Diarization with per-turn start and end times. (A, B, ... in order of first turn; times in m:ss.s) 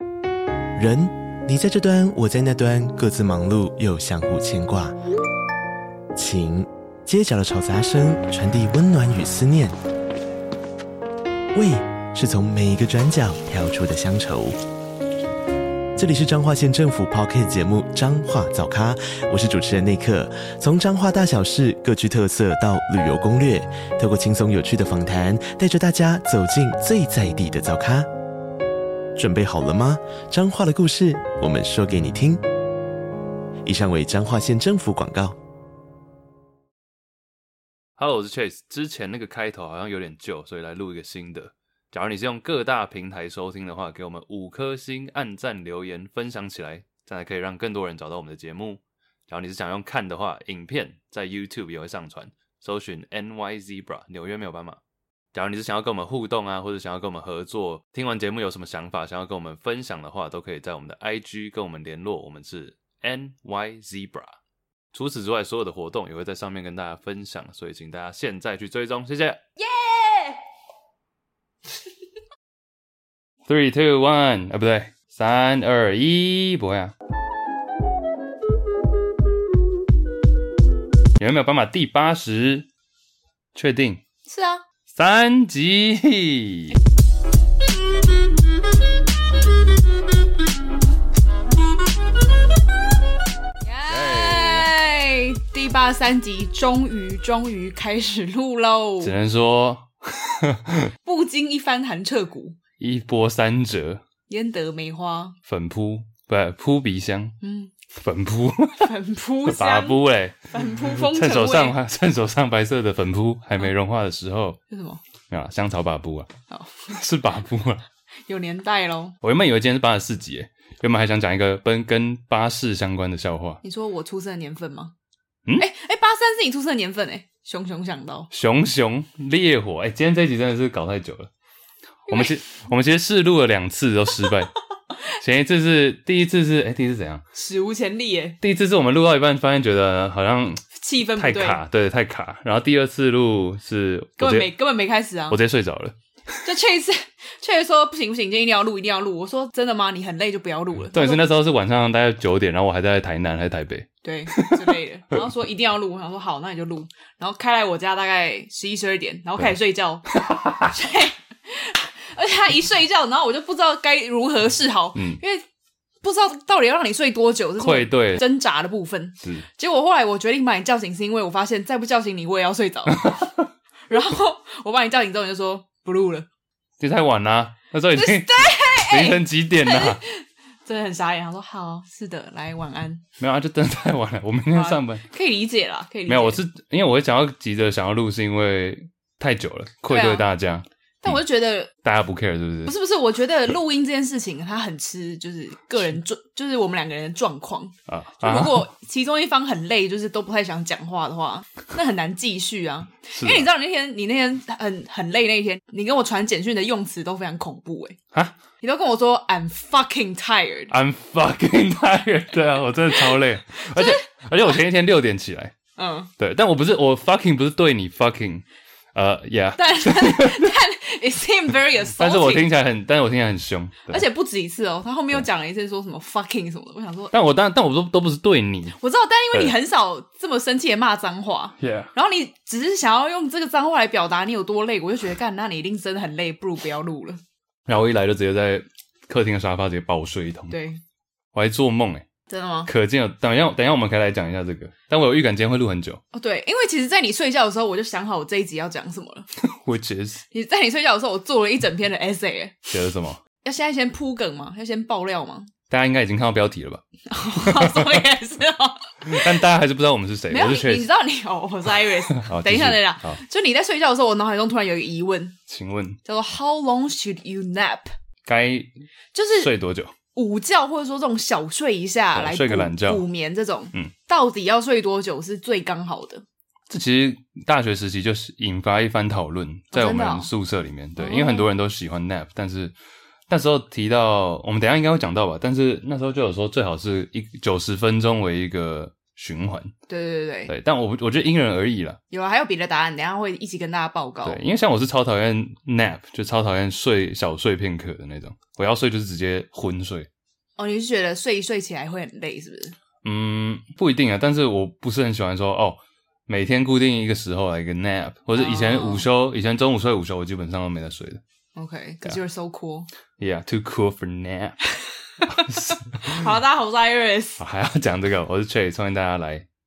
0:00.8-0:05.0 A
0:06.2-0:09.8 A
0:11.5-0:14.6 A
0:16.0-0:28.1 A
0:29.2-0:32.4 A
0:33.6-0:35.4 A
0:38.0-0:54.8 B
0:55.3-1:04.4 B
1:04.9-1:09.4 B
1:09.6-1:10.4 C
1:13.5-1:16.9 B
1:21.2-1:22.7 B
1:23.6-1:24.0 B
1:24.3-1:24.6 C
1:25.0-1:26.8 B
1:33.6-1:39.1 C
1:33.9-1:34.7 B
1:39.0-1:40.9 B
1:41.0-1:42.6 C
1:42.8-1:44.0 B
1:44.3-1:45.4 C
1:45.5-1:47.4 B
1:47.4-1:47.7 C
1:48.0-1:48.9 B
1:48.8-1:50.0 C
1:49.4-1:54.6 B
1:50.5-1:51.8 C
1:54.7-1:55.0 C
1:55.3-1:56.3 B
1:56.5-1:57.0 C
1:56.9-1:57.8 B
1:58.3-1:59.2 C
1:59.2-2:03.6 B
2:03.6-2:04.9 C
2:05.6-2:08.3 C
2:08.3-2:11.3 B
2:12.1-2:12.4 C
2:12.1-2:14.5 B
2:15.2-2:17.2 B
2:17.3-2:18.4 C
2:18.4-2:24.5 B
2:20.7-2:21.6 C
2:24.2-2:25.4 C
2:25.3-2:26.4 B
2:26.4-2:31.2 C
2:30.9-2:34.7 B
2:34.0-2:40.1 C
2:40.1-2:40.7 B
2:40.6-2:45.4 C
2:46.0-2:53.3 C
2:47.6-2:48.2 B
2:49.2-2:49.5 B
2:53.0-2:53.4 B
2:53.9-2:56.3 C
2:56.8-3:00.0 B
2:57.9-3:03.0 C
3:03.2-3:05.0 B
3:04.5-3:06.4 C
3:06.1-3:11.2 B
3:09.9-3:10.3 C
3:11.0-3:11.7 C
3:11.8-3:12.7 B
3:12.6-3:28.0 C
3:17.9-3:18.7 B
3:23.2-3:23.5 B
3:28.6-3:30.7 C
3:30.7-3:35.5 B
3:33.6-3:34.0 C
3:35.8-3:36.1 C
3:36.2-3:40.6 B
3:39.6-3:42.5 C
3:42.0-3:44.0 B
3:43.9-3:47.1 C
3:47.1-3:48.8 B
3:48.8-3:57.2 C
3:51.6-3:51.9 B
3:57.7-4:00.6 B
4:00.5-4:00.8 C
4:01.3-4:02.0 B
4:02.3-4:02.7 C
4:02.7-4:06.0 B
4:06.1-4:09.3 C
4:09.4-4:10.2 B
4:10.3-4:12.7 C
4:12.7-4:13.2 B
4:13.4-4:15.5 C
4:15.7-4:16.8 B
4:17.1-4:19.4 C
4:17.4-4:18.0 B
4:19.0-4:20.9 B
4:20.3-4:25.4 C
4:22.2-4:23.2 B
4:25.5-4:26.0 B
4:26.0-4:27.9 C
4:28.2-4:28.7 B
4:29.1-4:29.5 C
4:29.4-4:29.9 B
4:30.1-4:36.2 C
4:32.1-4:33.0 B
4:36.7-4:42.7 B
4:39.7-4:40.3 C
4:41.0-4:41.5 C
4:43.3-4:49.7 B
4:49.9-4:50.5 C
4:50.5-4:52.0 B
4:52.1-4:54.4 C
4:54.2-5:00.1 B
5:00.6-5:02.8 C
5:03.0-5:11.2 B
5:08.4-5:09.1 C
5:11.6-5:12.9 C
5:13.2-5:14.6 B
5:15.3-5:16.2 B
5:15.5-5:17.4 C
5:17.4-5:19.5 B